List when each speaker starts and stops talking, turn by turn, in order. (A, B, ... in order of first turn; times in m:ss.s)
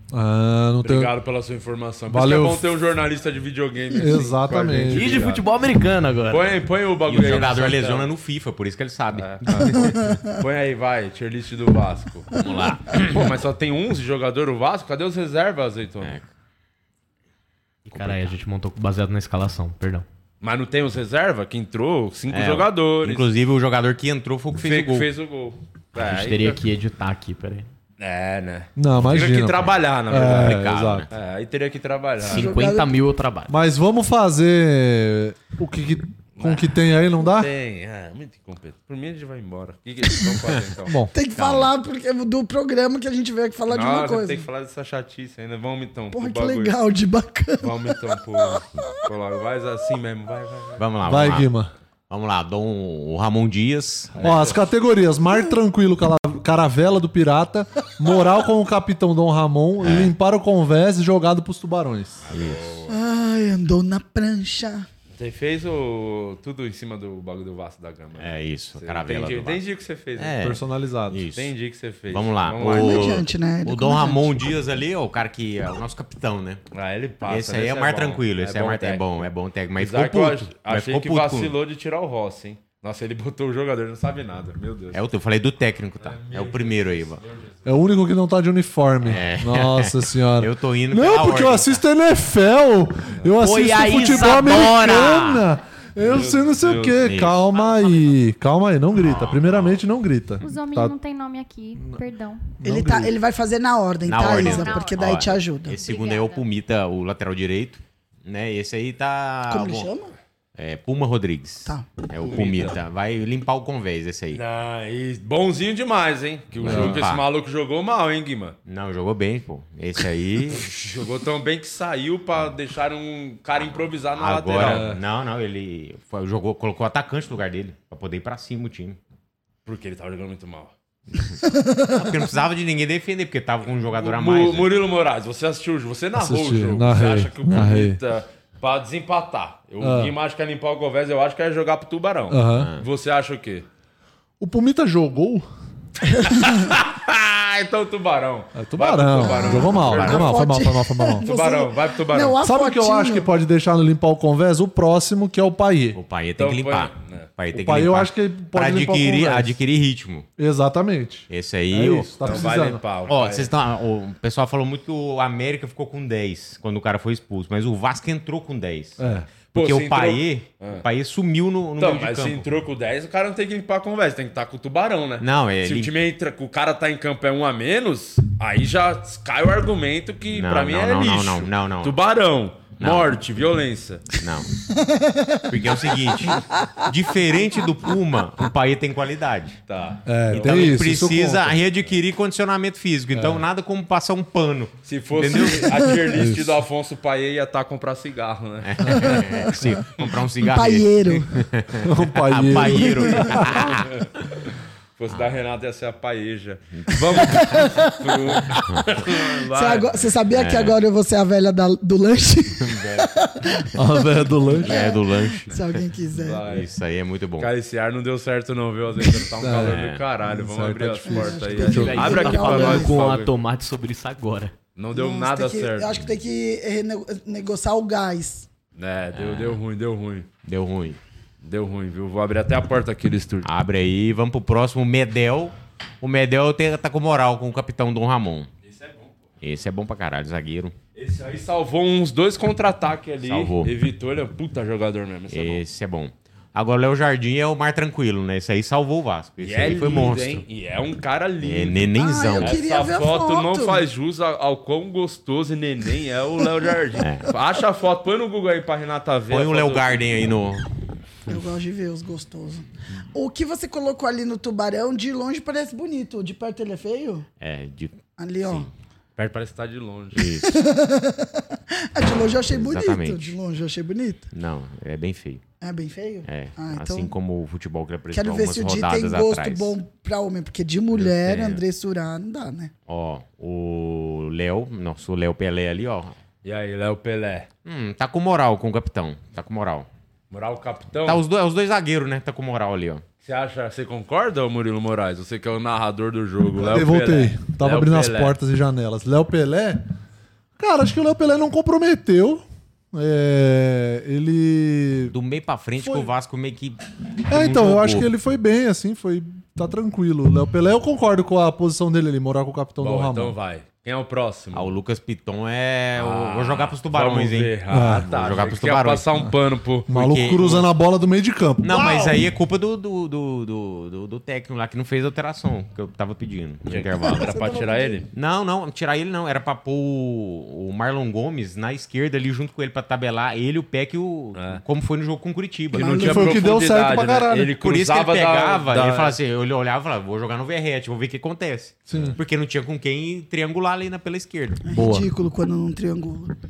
0:00.1-0:01.1 A
0:00.8-0:05.4 B
0:02.1-0:02.7 A
0:03.9-0:05.2 A
0:04.9-0:06.5 C
0:06.3-0:08.1 B
0:07.1-0:10.2 D
0:09.1-0:16.1 B
0:09.8-0:10.4 E
0:12.4-0:13.3 D
0:16.0-0:16.3 D
0:17.9-0:20.0 C
0:17.9-0:18.4 D
0:20.4-0:23.3 B
0:22.3-0:25.1 D
0:24.6-0:26.6 B
0:26.0-0:27.7 C
0:28.0-0:32.5 B
0:28.8-0:31.1 A
0:30.2-0:31.1 D
0:32.2-0:33.5 C
0:32.3-0:32.9 E
0:33.5-0:37.5 A
0:36.4-0:41.0 B
0:40.8-0:41.1 A
0:41.1-0:44.5 E
0:41.4-0:41.7 D
0:43.7-0:46.8 B
0:46.1-0:49.1 E
0:47.6-0:50.8 B
0:50.8-0:51.5 D
0:51.1-0:51.7 A
0:52.1-0:54.2 D
0:54.2-0:54.6 B
0:54.2-1:02.2 A
0:59.8-1:00.1 D
1:02.2-1:02.9 B
1:02.3-1:02.8 D
1:02.9-1:04.9 E
1:05.2-1:10.4 B
1:08.2-1:09.6 D
1:10.2-1:11.5 D
1:10.4-1:11.3 A
1:11.4-1:13.2 B
1:12.1-1:16.6 D
1:12.6-1:14.3 E
1:16.7-1:25.0 B
1:17.2-1:21.5 D
1:24.9-1:27.2 D
1:26.0-1:27.6 B
1:27.6-1:41.0 A
1:29.0-1:31.8 D
1:33.4-1:35.5 D
1:33.5-1:34.4 C
1:36.0-1:38.2 B
1:37.0-1:37.4 D
1:39.0-1:39.8 D
1:40.4-1:42.5 F
1:41.8-1:42.0 A
1:42.6-1:43.1 A
1:42.6-1:45.8 E
1:44.0-1:49.9 D
1:44.2-1:46.5 F
1:49.5-1:50.1 E
1:50.6-1:54.4 D
1:52.2-1:52.8 B
1:54.3-1:58.6 B
1:56.6-1:57.2 D
1:56.6-1:57.0 A
1:58.6-2:00.7 D
2:00.6-2:05.0 B
2:04.2-2:09.0 D
2:04.6-2:05.0 A
2:09.7-2:10.7 B
2:11.2-2:14.7 D
2:11.5-2:11.9 E
2:14.0-2:23.6 B
2:16.2-2:18.0 A
2:19.8-2:20.2 A
2:22.3-2:22.7 A
2:22.5-2:22.9 D
2:24.4-2:25.5 A
2:26.1-2:26.6 E
2:26.2-2:30.3 B
2:28.6-2:31.3 A
2:29.2-2:33.3 E
2:29.8-2:30.2 D
2:31.2-2:32.4 B
2:32.4-2:36.0 A
2:35.9-2:40.3 D
2:36.4-2:37.3 B
2:37.5-2:39.6 A
2:40.4-2:42.8 A
2:41.3-2:42.5 D
2:42.2-2:43.5 B
2:43.1-2:52.4 D
2:49.0-2:49.3 A
2:49.5-2:50.8 B
2:51.8-3:04.1 B
2:55.2-2:55.9 D
3:00.3-3:02.0 D
3:02.8-3:03.1 D
3:04.2-3:04.5 D
3:04.9-3:05.5 E
3:05.5-3:09.6 D
3:09.7-3:10.9 B
3:10.1-3:11.6 A
3:10.3-3:16.0 D
3:13.1-3:13.4 A
3:14.8-3:19.3 B
3:16.1-3:16.6 A
3:18.6-3:24.4 D
3:20.5-3:21.3 E
3:21.8-3:23.8 A
3:22.7-3:23.2 E
3:23.8-3:30.0 B
3:26.8-3:27.7 D
3:27.3-3:28.4 E
3:28.6-3:29.0 D
3:29.5-3:33.7 E
3:30.3-3:30.8 D
3:32.6-3:33.1 D
3:33.7-3:34.8 A
3:34.6-3:35.8 D
3:34.6-3:36.5 E
3:36.2-3:36.7 B
3:36.4-3:37.5 D
3:37.4-3:43.3 B
3:39.4-3:42.1 A
3:39.6-3:40.0 D
3:41.1-3:43.0 E
3:41.7-3:44.6 C
3:44.8-3:45.9 B
3:44.9-3:48.5 E
3:48.8-3:50.3 B
3:49.1-3:49.6 D
3:50.4-3:51.0 D
3:51.4-3:53.5 B
3:53.4-3:58.5 D
3:58.6-3:59.1 B
3:59.4-4:00.8 D
4:01.0-4:05.6 B
4:03.2-4:03.7 D
4:05.3-4:10.4 D
4:09.4-4:20.0 B
4:11.4-4:12.6 D
4:12.0-4:13.8 E
4:17.0-4:17.3 D
4:19.3-4:20.6 D
4:21.3-4:27.3 E
4:27.4-4:28.7 D
4:28.2-4:28.7 E
4:29.2-4:30.3 B
4:30.2-4:30.6 D
4:30.4-4:34.3 E
4:32.4-4:33.4 D
4:34.3-4:35.4 D
4:35.6-4:37.1 E
4:36.2-4:39.8 D
4:38.1-4:42.7 E
4:40.9-4:41.6 D
4:42.9-4:46.2 D
4:46.4-4:47.5 B
4:47.6-4:49.9 D
4:50.3-4:51.2 B
4:51.0-4:53.0 D
4:53.2-4:58.4 B
4:56.6-4:59.9 A
5:00.6-5:05.1 A
5:05.1-5:08.1 D
5:05.8-5:06.1 A
5:07.3-5:13.4 A
5:12.8-5:14.8 B
5:14.5-5:19.1 D
5:16.0-5:19.9 B
5:17.7-5:18.1 A
5:19.9-5:22.2 A
5:19.9-5:20.7 D
5:21.6-5:27.3 D
5:26.7-5:28.1 B
5:27.0-5:28.0 E
5:28.1-5:36.2 D
5:34.4-5:34.6 B
5:35.7-5:36.2 E
5:35.7-5:39.2 B
5:35.9-5:37.6 A
5:37.6-5:44.6 D
5:41.9-5:42.2 A
5:44.7-5:46.3 E
5:44.8-5:45.0 A